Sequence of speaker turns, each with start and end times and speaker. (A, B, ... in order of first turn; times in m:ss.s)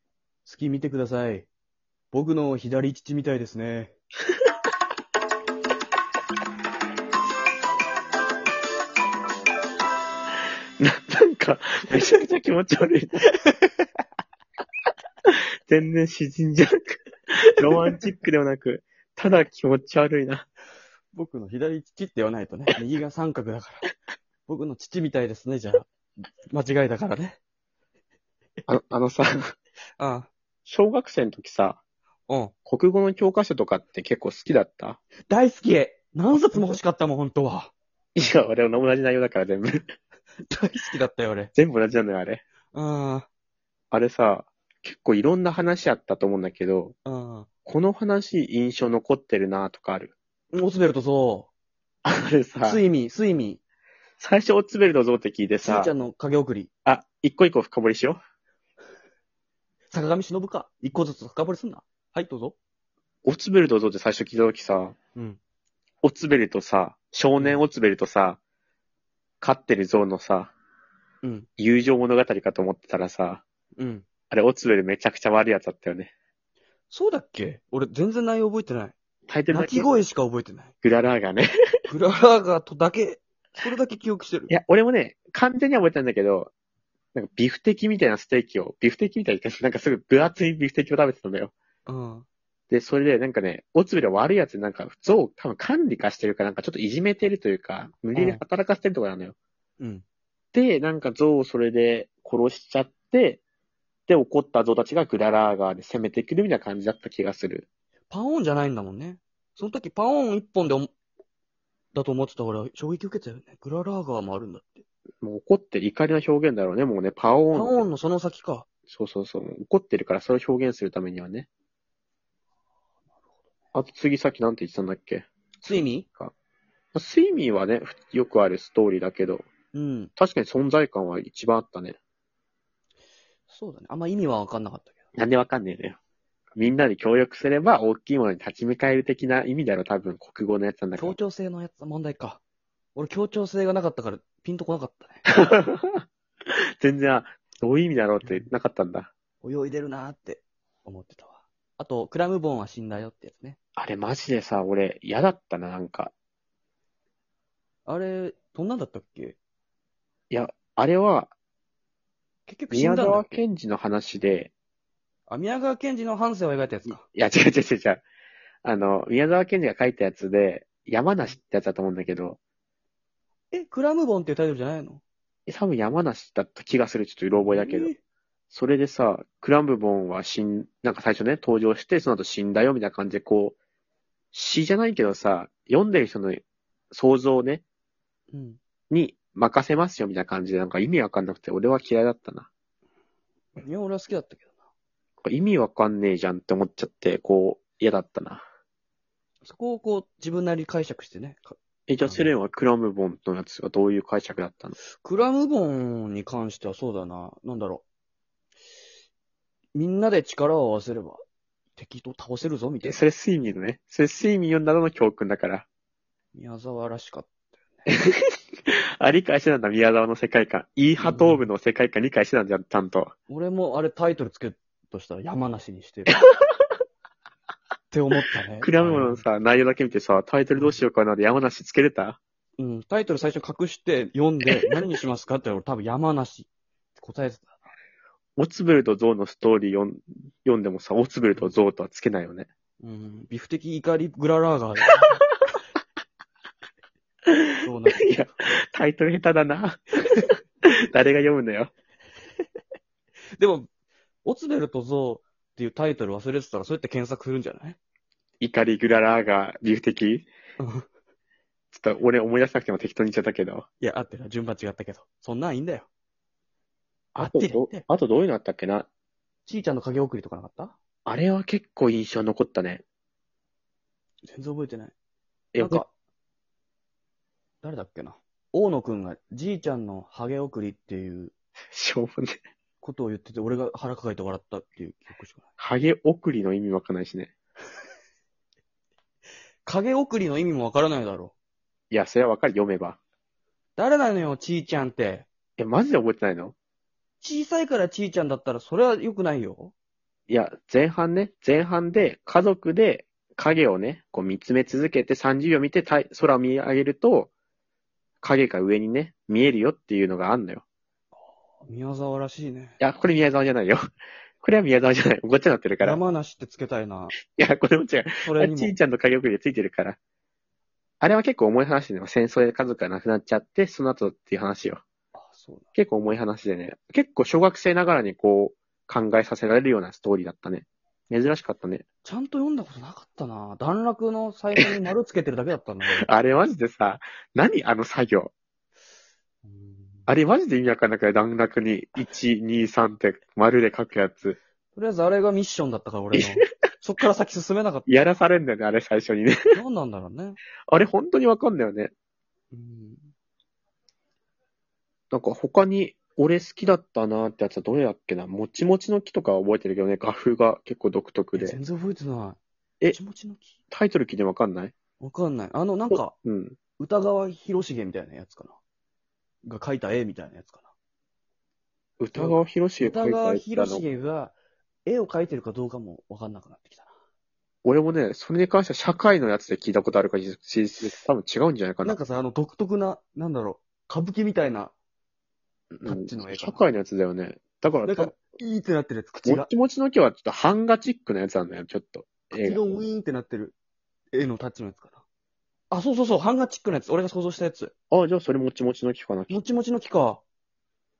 0:00.4-0:01.5 A
0:02.1-0:03.9 A
0:10.8-0:13.3 B
0:13.4-0:13.7 A
0:15.3-0:20.5 B
0:21.1-0:23.9 A
0:24.5-0:25.9 A
0:26.5-0:27.4 A
0:28.7-0:29.5 B
0:30.0-0:30.3 A
0:30.6-0:31.8 B
0:32.3-0:32.5 A
0:32.6-0:35.0 B
0:35.3-0:37.7 A
0:38.2-0:39.8 B
0:40.4-0:41.5 A
0:41.5-0:42.4 B
0:42.7-0:43.3 A
0:43.9-0:46.9 B
0:47.0-0:47.5 A
0:47.6-0:50.1 B
0:50.5-0:51.5 A
0:52.0-0:52.8 B
0:52.6-0:53.6 A
0:54.2-0:55.9 B
0:55.6-0:56.7 A
0:56.8-0:58.2 B
0:59.9-1:02.6 A
1:03.2-1:04.9 B
1:06.0-1:08.4 B
1:09.4-1:10.5 B
1:11.2-1:11.5 A
1:11.6-1:13.4 B
1:13.8-1:14.0 A
1:14.3-1:16.1 B
1:16.9-1:19.0 A
1:19.3-1:19.9 B
1:19.5-1:20.7 A
1:20.8-1:21.5 B
1:21.9-1:24.5 A
1:24.5-1:26.5 B
1:27.1-1:31.5 B
1:31.9-1:32.2 A
1:32.7-1:39.3 B
1:38.1-1:38.4 A
1:39.8-1:40.0 A
1:40.5-1:43.4 B
1:44.1-1:47.6 B
1:48.1-1:50.9 A
1:51.9-1:54.8 A
1:55.2-1:57.8 B
1:57.5-1:58.7 A
1:58.9-2:01.5 B
2:03.7-2:06.3 B
2:05.6-2:06.0 A
2:06.9-2:09.5 B
2:09.7-2:10.1 A
2:10.2-2:12.0 B
2:13.5-2:15.0 A
2:15.1-2:16.0 B
2:16.5-2:21.2 B
2:21.0-2:22.4 A
2:22.9-2:25.2 A
2:25.2-2:29.1 B
2:28.2-2:28.5 A
2:29.4-2:33.6 A
2:33.8-2:36.1 B
2:37.8-2:39.4 A
2:40.3-2:41.3 B
2:42.5-2:43.3 A
2:42.7-2:44.5 B
2:45.3-2:47.0 A
2:47.0-2:48.0 B
2:48.6-2:52.4 B
2:53.5-2:55.0 A
2:55.5-2:57.9 B
2:57.4-2:58.0 A
2:58.5-3:03.6 B
3:04.3-3:07.6 B
3:08.3-3:08.6 A
3:08.9-3:12.5 B
3:13.6-3:14.6 A
3:15.2-3:18.4 B
3:19.4-3:22.3 A
3:21.9-3:24.8 B
3:25.0-3:27.8 A
3:29.7-3:31.2 A
3:31.8-3:33.0 A
3:32.8-3:35.7 B
3:36.3-3:37.8 A
3:37.9-3:43.1 B
3:41.0-3:41.4 A
3:43.3-3:46.2 A
3:47.9-3:49.2 A
3:48.6-3:52.2 B
3:52.6-3:57.6 A
3:58.4-4:02.5 B
4:02.8-4:05.2 A
4:07.6-4:08.1 A
4:07.9-4:11.7 B
4:13.4-4:13.7 A
4:14.2-4:17.8 A
4:18.4-4:20.3 B
4:20.6-4:20.8 A
4:21.7-4:23.7 B
4:23.8-4:25.9 A
4:27.2-4:27.8 A
4:27.2-4:28.9 B
4:29.4-4:30.8 A
4:31.0-4:32.8 B
4:34.2-4:34.9 A
4:35.5-4:35.8 B
4:35.6-4:35.9 A
4:37.6-4:41.3 A
4:41.7-4:42.4 B
4:42.8-4:45.5 A
4:45.6-4:47.3 B
4:49.6-4:51.3 A
4:51.9-4:53.0 B
4:53.8-4:55.3 A
4:55.6-4:56.5 B
4:57.2-4:59.7 A
5:00.3-5:07.3 B
5:08.2-5:10.6 B
5:11.6-5:12.7 A
5:12.8-5:13.8 B
5:14.4-5:16.0 B
5:15.8-5:17.1 A
5:17.3-5:20.0 B
5:18.2-5:18.8 A
5:21.0-5:24.8 B
5:25.1-5:25.6 A
5:25.7-5:31.8 B
5:32.0-5:36.1 A
5:36.0-5:38.3 B
5:39.4-5:40.1 A
5:40.1-5:44.4 B
5:44.7-5:47.9 A
5:46.1-5:46.4 B
5:47.9-5:49.6 B
5:49.5-5:50.4 A
5:50.7-5:51.9 B
5:52.5-5:53.1 A
5:55.1-6:01.6 B
6:01.3-6:02.4 A
6:02.9-6:03.5 A
6:03.7-6:04.7 B
6:05.0-6:06.1 A
6:05.9-6:06.6 B
6:06.8-6:08.6 A
6:09.4-6:10.6 A
6:12.0-6:13.8 B
6:12.1-6:16.9 A
6:17.6-6:22.0 B
6:21.8-6:24.7 A
6:25.7-6:28.1 B
6:25.8-6:26.6 A
6:27.8-6:29.5 A
6:29.2-6:32.6 B
6:32.3-6:33.5 A
6:34.1-6:35.0 A
6:35.7-6:37.7 A
6:37.9-6:39.3 B
6:39.3-6:40.2 A